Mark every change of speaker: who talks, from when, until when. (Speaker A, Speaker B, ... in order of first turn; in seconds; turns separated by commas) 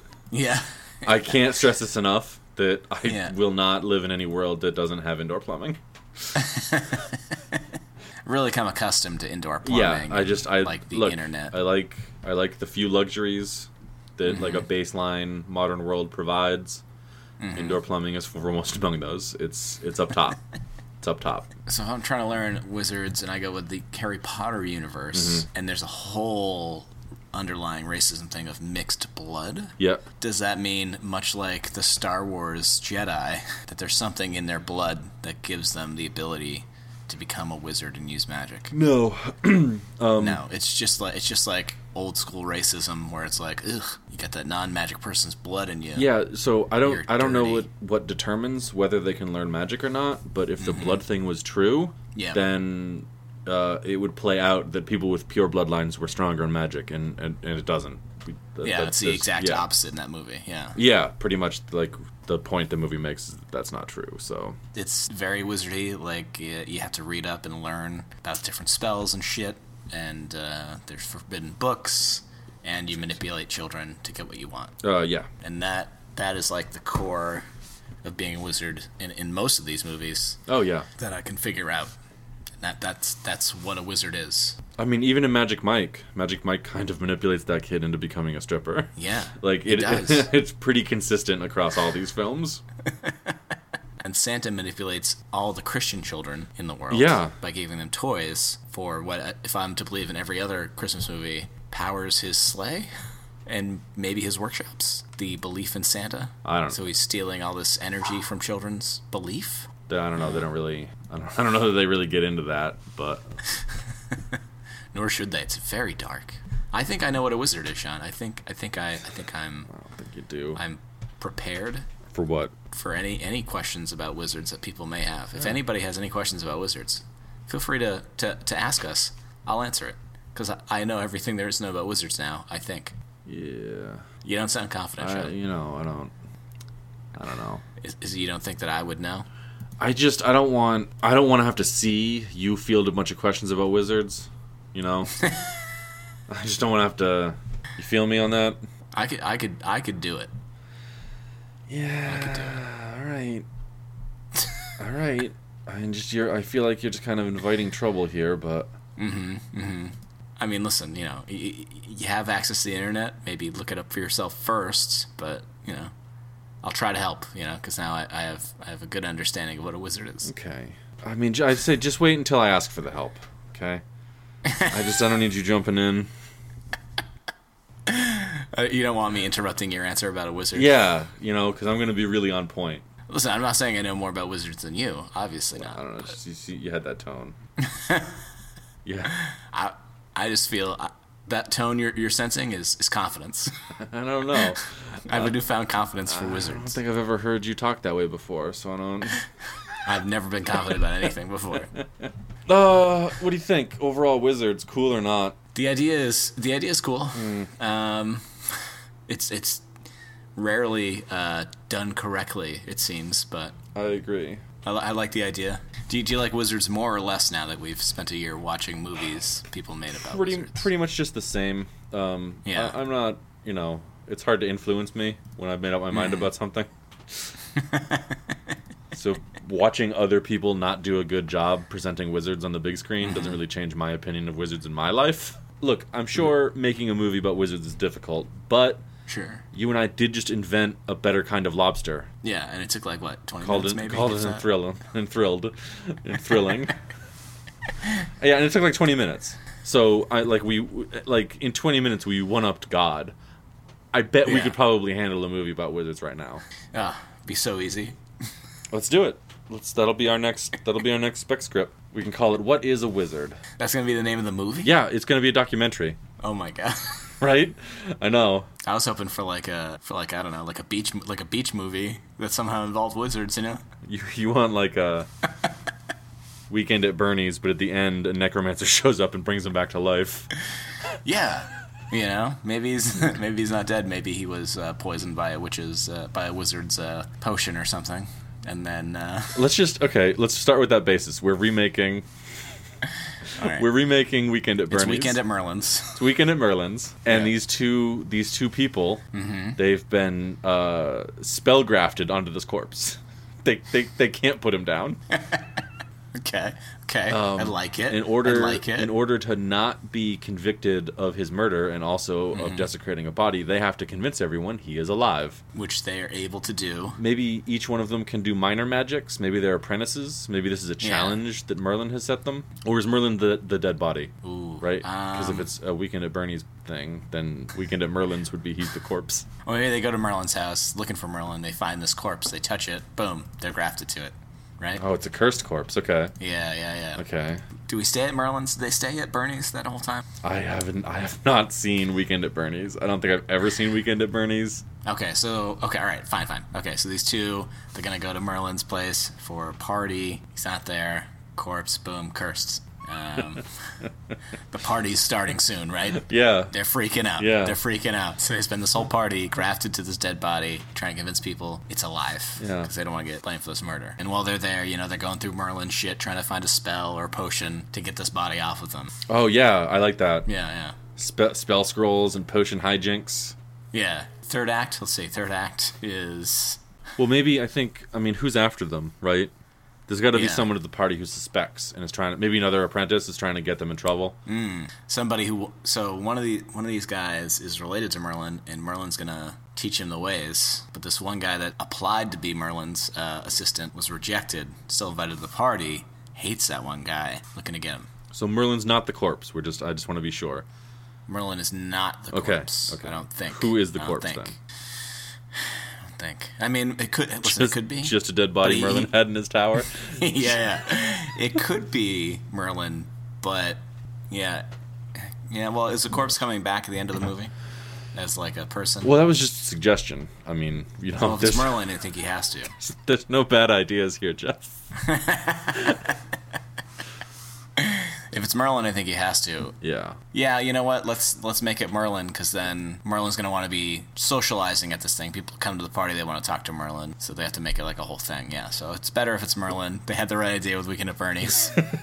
Speaker A: 0.3-1.1, Speaker B: 1.0-5.8, Speaker A: 3.0-3.3, Speaker A: 6.3-7.6, Speaker A: 8.2-11.5, Speaker B: 9.6-16.8, Speaker A: 14.2-14.6, Speaker A: 17.4-17.8, Speaker B: 17.5-20.4, Speaker B: 21.0-21.5, Speaker A: 21.7-38.7, Speaker B: 25.1-25.4, Speaker B: 29.8-30.0, Speaker B: 38.7-40.4, Speaker A: 40.2-46.1, Speaker B: 45.9-59.6, Speaker A: 46.8-47.7, Speaker A: 50.6-51.0, Speaker A: 52.1-52.4, Speaker A: 58.6-60.8, Speaker B: 60.8-64.6, Speaker A: 64.7-74.8, Speaker B: 74.8-75.3, Speaker A: 75.4-77.4, Speaker A: 78.0-80.4, Speaker B: 80.5-80.9, Speaker A: 81.0-81.9, Speaker A: 82.6-84.6, Speaker B: 84.8-92.6, Speaker A: 89.0-90.3, Speaker A: 93.0-93.3, Speaker A: 94.0-102.9, Speaker B: 96.9-97.3, Speaker A: 103.5-109.7, Speaker B: 106.4-106.8, Speaker B: 109.9-113.2, Speaker A: 114.9-119.7, Speaker B: 119.7-120.6, Speaker A: 120.5-121.9, Speaker B: 122.1-122.5, Speaker A: 122.7-132.9, Speaker B: 133.2-134.1, Speaker A: 134.2-135.3, Speaker B: 135.0-136.1, Speaker B: 137.1-137.6, Speaker A: 137.8-139.2, Speaker B: 139.8-145.2, Speaker B: 146.3-148.6, Speaker A: 148.9-150.3, Speaker B: 151.7-153.4, Speaker A: 152.0-152.6, Speaker B: 154.8-158.7, Speaker A: 159.0-165.9, Speaker A: 166.6-170.3, Speaker B: 170.2-173.8, Speaker A: 174.4-174.7, Speaker B: 174.6-176.1, Speaker A: 177.8-180.7, Speaker B: 180.5-182.8, Speaker A: 183.1-185.8, Speaker B: 185.6-187.4, Speaker A: 187.6-188.2, Speaker B: 188.8-189.1, Speaker A: 189.1-193.5, Speaker B: 193.8-195.3, Speaker A: 195.1-196.8, Speaker B: 196.1-199.2, Speaker A: 199.8-201.7, Speaker B: 202.5-205.4, Speaker A: 205.5-208.3, Speaker B: 207.1-207.5, Speaker A: 209.1-209.6, Speaker A: 210.3-213.6, Speaker B: 213.7-214.4, Speaker A: 214.6-220.6, Speaker B: 219.9-227.3, Speaker A: 222.4-222.8, Speaker A: 225.9-226.2, Speaker A: 227.6-228.2, Speaker B: 228.9-238.8, Speaker A: 233.0-233.4, Speaker A: 239.1-239.4, Speaker B: 239.5-242.1, Speaker A: 242.2-244.4, Speaker B: 243.4-246.7, Speaker B: 248.2-253.1, Speaker B: 253.9-256.4, Speaker A: 254.2-254.5, Speaker A: 256.7-258.0, Speaker B: 258.7-263.4, Speaker A: 263.6-264.7, Speaker B: 264.6-266.0, Speaker A: 266.2-267.1, Speaker B: 267.2-268.5, Speaker A: 268.6-273.6, Speaker B: 273.8-275.1, Speaker B: 276.5-280.3, Speaker A: 281.0-289.4, Speaker B: 289.3-292.1, Speaker A: 293.4-293.6, Speaker B: 293.4-295.2, Speaker A: 294.7-296.0, Speaker B: 295.9-299.0, Speaker A: 297.1-297.3, Speaker A: 299.1-299.6, Speaker B: 299.6-305.0, Speaker A: 305.1-305.5, Speaker A: 306.1-308.9, Speaker B: 307.1-315.4, Speaker A: 312.3-312.7, Speaker A: 315.5-317.0, Speaker B: 317.0-329.2, Speaker A: 320.8-321.2, Speaker A: 324.2-325.5, Speaker A: 329.4-334.8, Speaker B: 334.8-336.1, Speaker A: 336.2-337.0, Speaker B: 336.9-337.4, Speaker A: 337.6-340.0, Speaker B: 340.2-344.6, Speaker A: 344.8-353.5, Speaker A: 354.5-368.9, Speaker B: 355.9-356.5, Speaker B: 357.2-357.6, Speaker B: 362.4-362.7, Speaker B: 369.1-370.3, Speaker A: 370.2-370.8, Speaker B: 370.9-373.4, Speaker A: 373.7-376.6, Speaker B: 377.0-379.3, Speaker B: 379.9-384.1, Speaker A: 380.1-380.5, Speaker A: 384.2-397.9, Speaker B: 398.1-400.4, Speaker A: 401.1-404.4, Speaker B: 402.1-404.3, Speaker A: 405.4-408.9, Speaker B: 407.2-410.3, Speaker A: 409.8-417.3, Speaker A: 417.9-418.9, Speaker B: 418.8-421.6, Speaker A: 421.0-422.5, Speaker B: 422.6-424.6, Speaker A: 424.8-425.8, Speaker A: 427.6-429.6, Speaker B: 429.6-430.0, Speaker A: 430.1-441.6